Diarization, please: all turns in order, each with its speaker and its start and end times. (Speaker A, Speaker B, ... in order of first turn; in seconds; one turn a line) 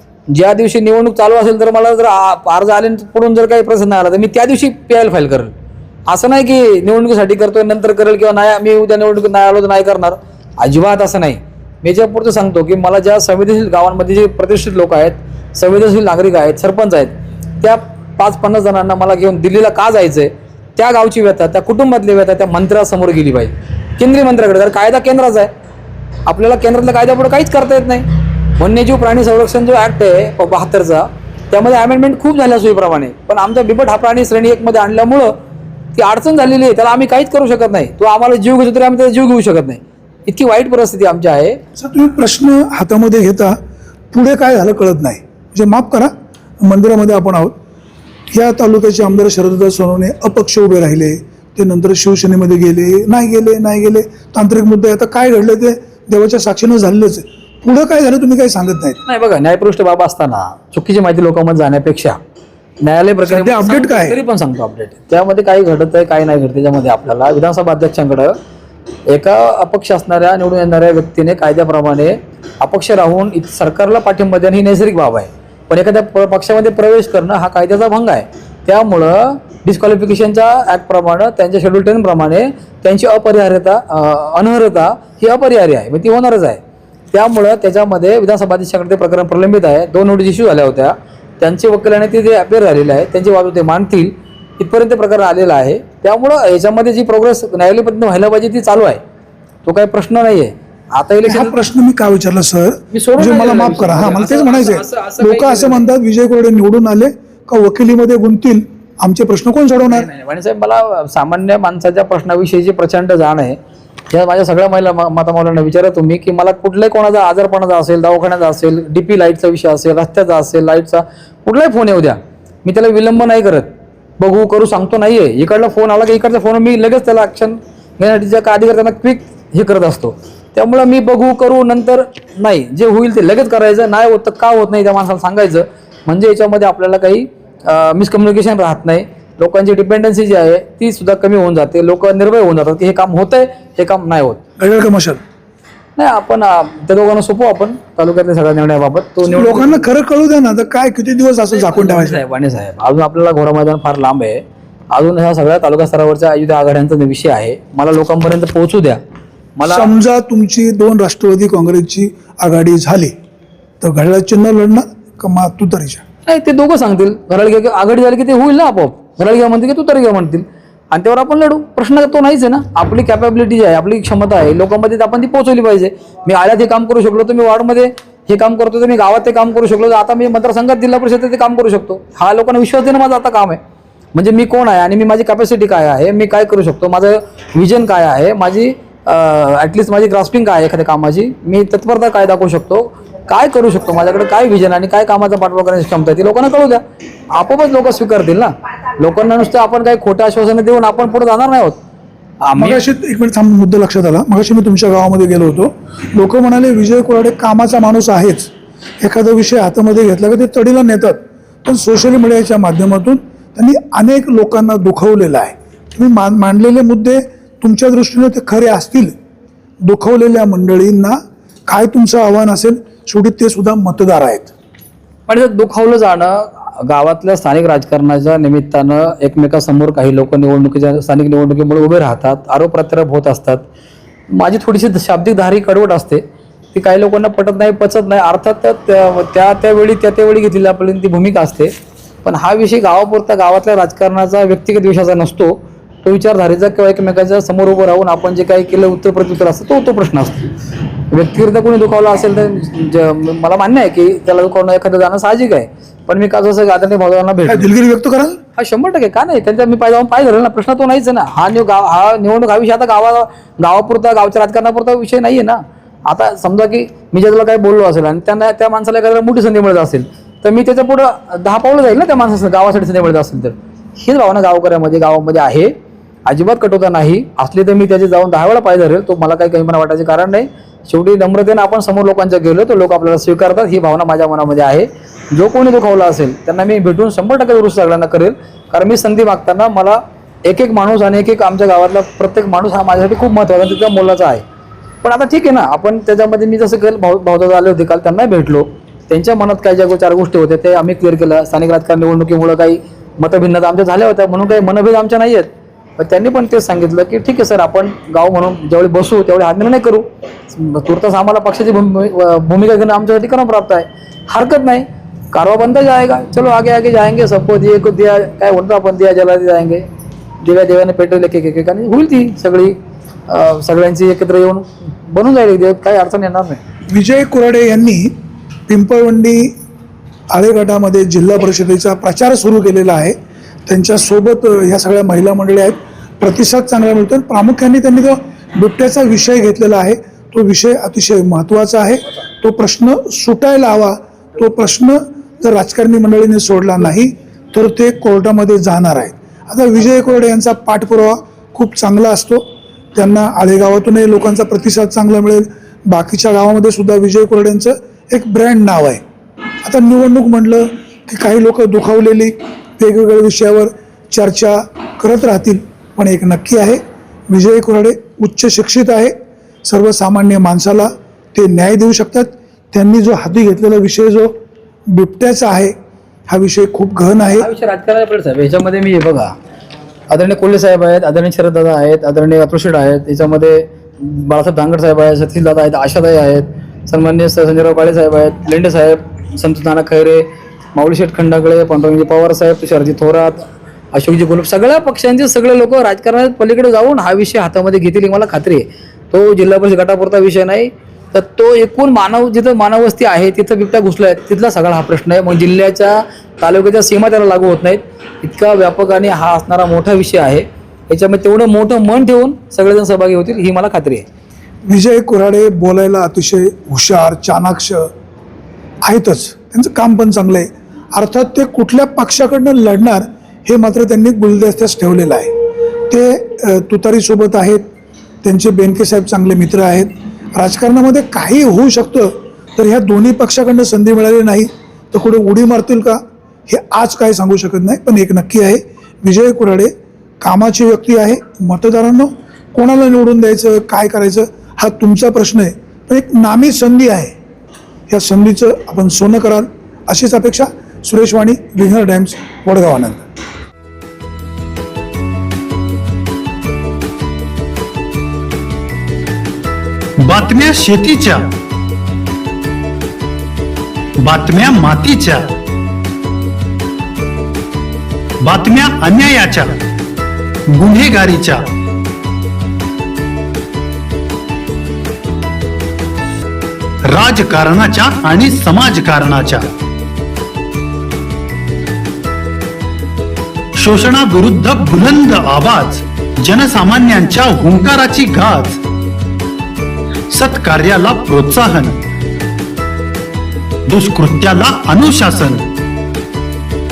Speaker A: 0.3-5.5
Speaker A: 6.1-25.5
Speaker A: 26.3-28.1
Speaker A: 28.6-35.3
Speaker A: 36.0-41.6
Speaker B: 41.8-43.6
Speaker B: 44.1-47.5
Speaker B: 48.3-59.0
Speaker A: 59.1-62.2
Speaker A: 62.8-68.4
Speaker B: 63.3-64.2
Speaker A: 69.1-86.6
Speaker A: 87.1-99.0
Speaker A: 99.7-101.6
Speaker B: 101.2-110.1
Speaker A: 102.9-105.9
Speaker A: 109.9-113.6
Speaker A: 114.1-144.4
Speaker B: 144.6-145.2
Speaker A: 146.0-149.9
Speaker B: 149.2-152.2
Speaker A: 151.5-159.0
Speaker A: 159.6-159.9
Speaker B: 159.7-163.1
Speaker B: 163.8-166.0
Speaker A: 166.3-183.6
Speaker A: 184.1-196.8
Speaker A: 197.3-201.8
Speaker A: 202.4-202.8
Speaker B: 202.6-208.5
Speaker B: 209.0-219.1
Speaker B: 219.8-224.5
Speaker A: 225.3-233.6
Speaker A: 234.3-236.2
Speaker A: 236.7-241.7
Speaker A: 242.2-250.5
Speaker A: 251.1-257.7
Speaker B: 257.5-258.4
Speaker A: 258.6-275.7
Speaker A: 276.3-294.4
Speaker A: 295.0-319.9
Speaker A: 320.4-322.8
Speaker A: 323.3-326.6
Speaker B: 326.9-328.1
Speaker B: 328.7-329.6
Speaker B: 330.3-359.0
Speaker B: 359.6-374.4
Speaker B: 374.9-375.8
Speaker B: 376.3-377.5
Speaker A: 377.4-379.3
Speaker A: 380.1-414.1
Speaker B: 414.7-417.9
Speaker B: 418.9-425.3
Speaker B: 425.9-427.6
Speaker B: 428.2-447.1
Speaker B: 447.9-453.0
Speaker C: 460.0-461.3
Speaker C: 464.0-465.3
Speaker C: 468.2-469.6
Speaker C: 470.5-471.5
Speaker C: 476.9-479.5
Speaker C: 483.6-488.6
Speaker C: 490.1-491.8
Speaker C: 493.7-495.5